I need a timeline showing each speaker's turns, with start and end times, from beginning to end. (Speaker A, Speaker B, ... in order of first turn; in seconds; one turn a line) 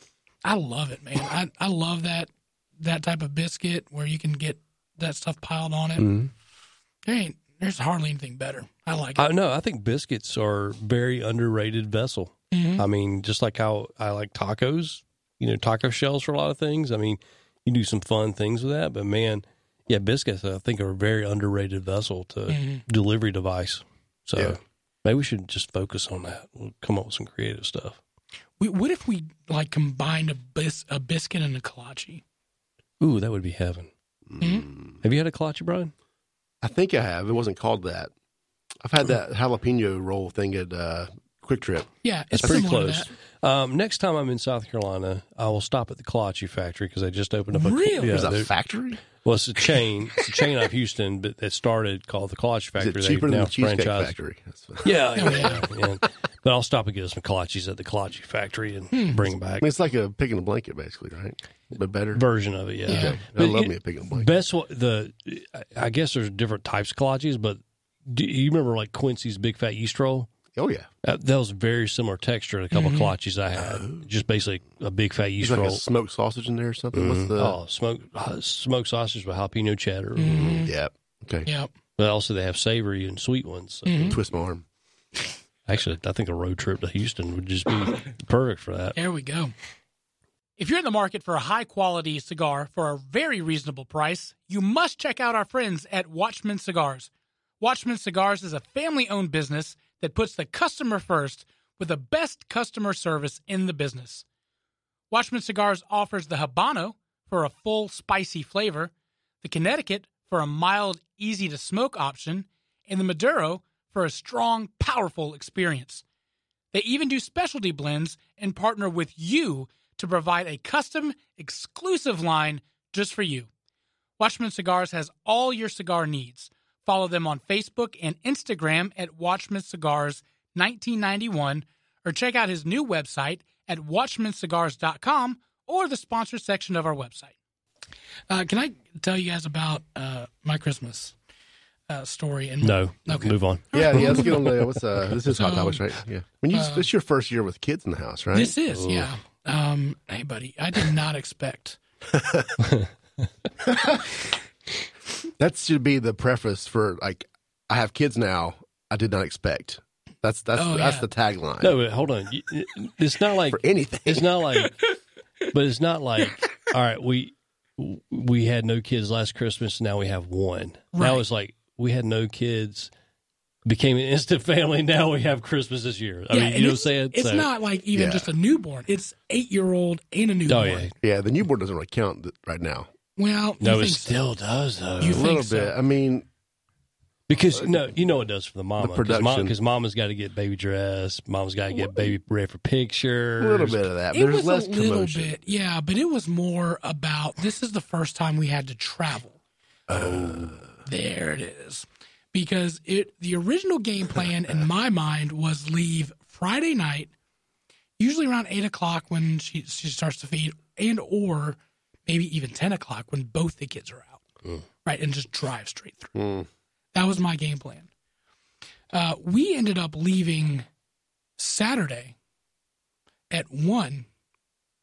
Speaker A: 0.4-6.1
Speaker B: 6.0-6.3
Speaker A: 7.1-9.3
Speaker C: 9.2-28.0
Speaker A: 12.5-12.8
Speaker A: 22.5-22.8
Speaker A: 28.6-32.2
Speaker C: 33.0-33.9
Speaker B: 34.3-35.0
Speaker A: 34.4-34.7
Speaker C: 35.0-35.9
Speaker B: 36.6-38.1
Speaker B: 38.8-42.7
Speaker A: 42.0-43.1
Speaker C: 42.4-48.5
Speaker A: 47.5-48.2
Speaker B: 48.1-49.0
Speaker C: 49.1-54.1
Speaker B: 52.8-55.8
Speaker C: 54.8-59.7
Speaker A: 55.2-55.6
Speaker A: 58.9-59.2
Speaker B: 59.6-62.2
Speaker C: 62.1-70.3
Speaker B: 62.9-64.3
Speaker A: 62.9-63.2
Speaker B: 70.5-70.9
Speaker C: 71.0-75.8
Speaker A: 72.7-73.1
Speaker B: 73.5-74.1
Speaker B: 75.4-77.6
Speaker C: 76.9-80.7
Speaker A: 80.2-80.7
Speaker B: 80.3-81.5
Speaker A: 81.5-81.7
Speaker C: 82.0-84.2
Speaker A: 83.9-84.2
Speaker B: 84.1-84.7
Speaker C: 85.7-89.0
Speaker A: 89.0-89.5
Speaker A: 90.6-104.2
Speaker A: 105.1-116.0
Speaker A: 116.7-123.5
Speaker A: 124.2-137.3
Speaker A: 138.3-141.2
Speaker A: 141.9-144.7
Speaker C: 142.6-144.4
Speaker B: 143.7-148.6
Speaker A: 145.3-145.9
Speaker A: 146.5-146.9
Speaker A: 148.3-151.8
Speaker C: 148.7-149.1
Speaker B: 152.1-152.6
Speaker C: 152.6-152.9
Speaker B: 153.6-154.1
Speaker B: 155.4-161.8
Speaker A: 160.6-161.1
Speaker C: 161.6-164.8
Speaker B: 163.5-164.3
Speaker C: 165.5-172.9
Speaker A: 170.9-171.2
Speaker C: 173.7-177.5
Speaker A: 176.3-180.9
Speaker B: 177.9-178.3
Speaker C: 180.5-180.9
Speaker B: 181.0-182.9
Speaker A: 183.2-184.2
Speaker C: 183.6-185.3
Speaker A: 185.0-185.7
Speaker B: 185.1-186.3
Speaker C: 187.3-193.8
Speaker B: 187.6-187.9
Speaker B: 188.8-189.6
Speaker B: 193.4-195.4
Speaker A: 194.1-199.4
Speaker B: 199.9-200.7
Speaker C: 199.9-200.6
Speaker A: 200.8-207.1
Speaker A: 208.0-214.2
Speaker A: 214.8-216.1
Speaker B: 216.2-216.5
Speaker A: 216.9-217.9
Speaker A: 218.9-220.7
Speaker A: 221.4-222.2
Speaker A: 223.3-224.1